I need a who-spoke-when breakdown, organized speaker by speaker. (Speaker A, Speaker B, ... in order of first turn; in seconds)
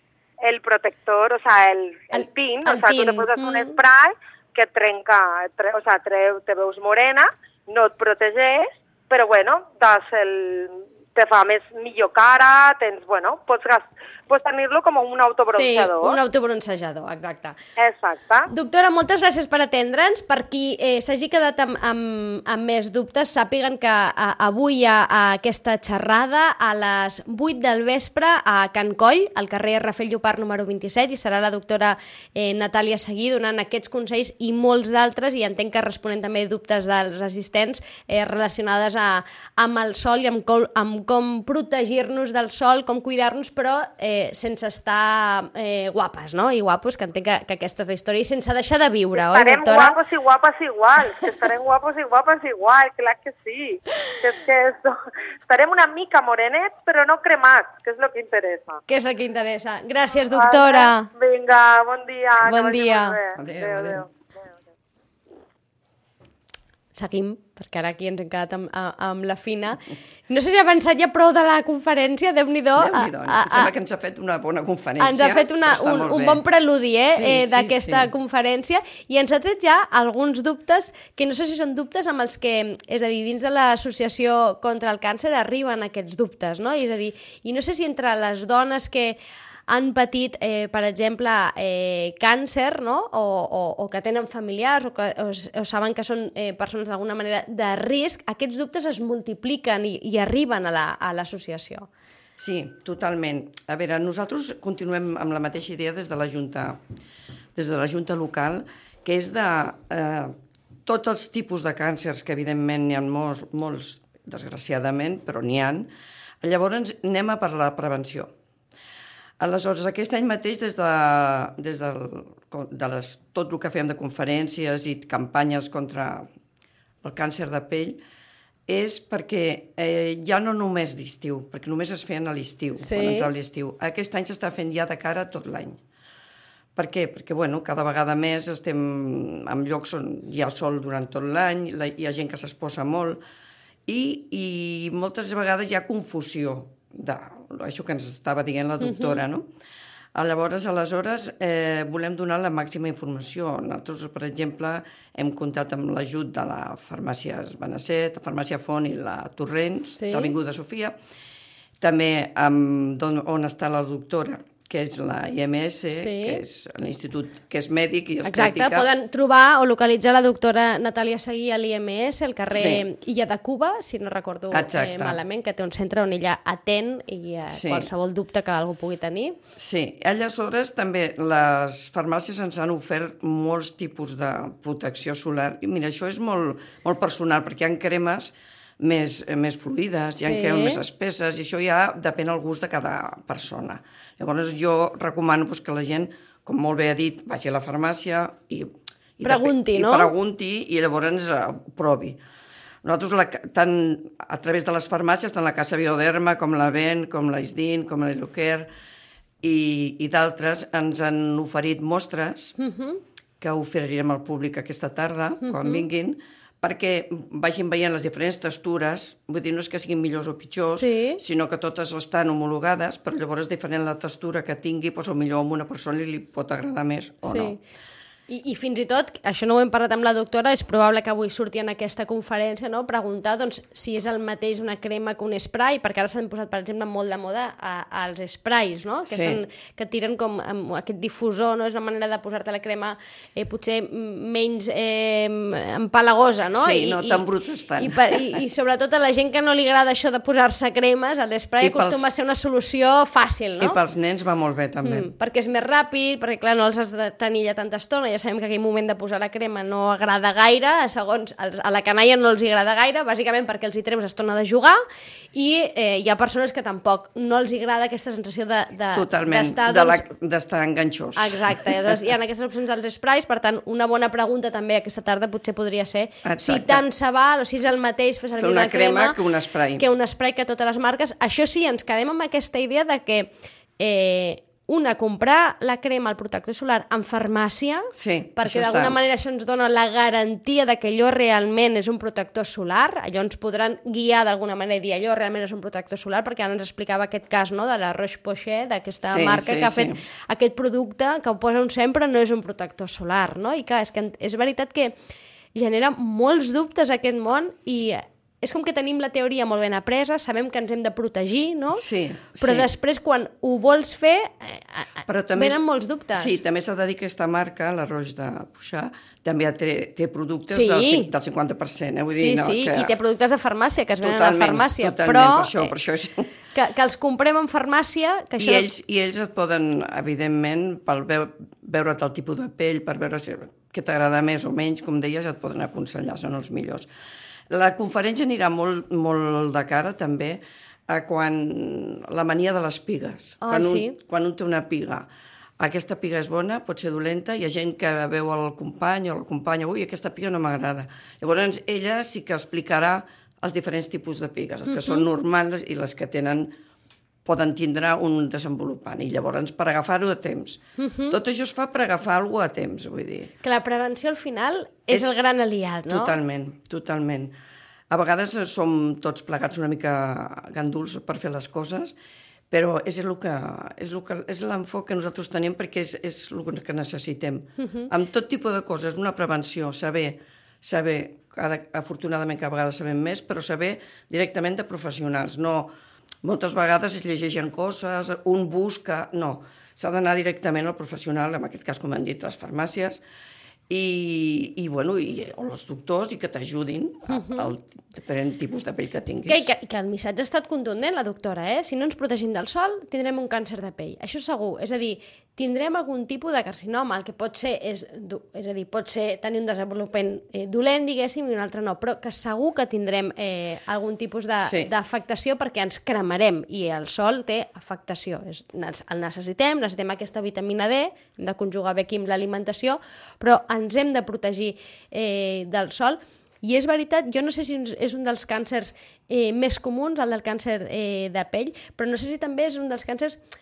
Speaker A: 0.4-16.2, 17.8-18.5, 49.2-58.8, 60.3-64.1
Speaker B: 2.1-3.8, 15.5-17.6, 18.5-50.0, 58.9-61.1, 62.4-63.2, 66.9-73.7, 75.0-101.9, 132.8-133.3, 148.8-149.2, 160.0-160.3, 165.9-166.4, 168.2-179.4, 190.2-190.8, 199.2-200.1, 212.6-213.0, 215.4-215.8, 220.7-221.2, 227.3-227.6, 228.3-247.2, 247.8-253.8, 254.8-264.8, 265.4-270.1, 271.2-279.2, 279.8-305.0, 305.6-311.8, 312.4-316.4, 320.5-321.1, 322.1-325.7, 326.6-328.7, 343.4-344.0, 354.7-355.1, 360.8-361.2, 363.4-366.1, 377.6-377.9, 397.1-397.5, 399.3-433.2
Speaker C: 63.4-64.0, 72.8-76.4, 77.1-78.1, 102.4-106.8, 107.5-110.3, 110.9-115.9, 116.4-118.3, 119.4-126.3, 127.0-128.0, 128.7-135.8, 136.8-143.2, 143.9-149.5, 150.2-160.9, 161.8-168.9, 172.5-172.8, 174.5-175.2, 177.5-177.9, 179.6-202.2, 202.8-208.7, 209.4-212.5, 213.4-227.6, 239.1-239.4, 246.6-248.4, 251.6-252.1, 253.6-255.1, 268.9-272.0, 276.2-276.8, 278.4-279.9, 287.9-289.0, 299.1-300.0, 311.7-312.7, 315.1-315.6, 316.1-322.9, 324.0-326.3, 328.4-336.9, 337.5-345.1, 345.6-356.5, 357.2-363.3, 364.9-365.2, 365.9-367.3, 367.9-371.9, 372.5-385.7, 386.2-393.0, 393.7-399.5, 414.4-414.7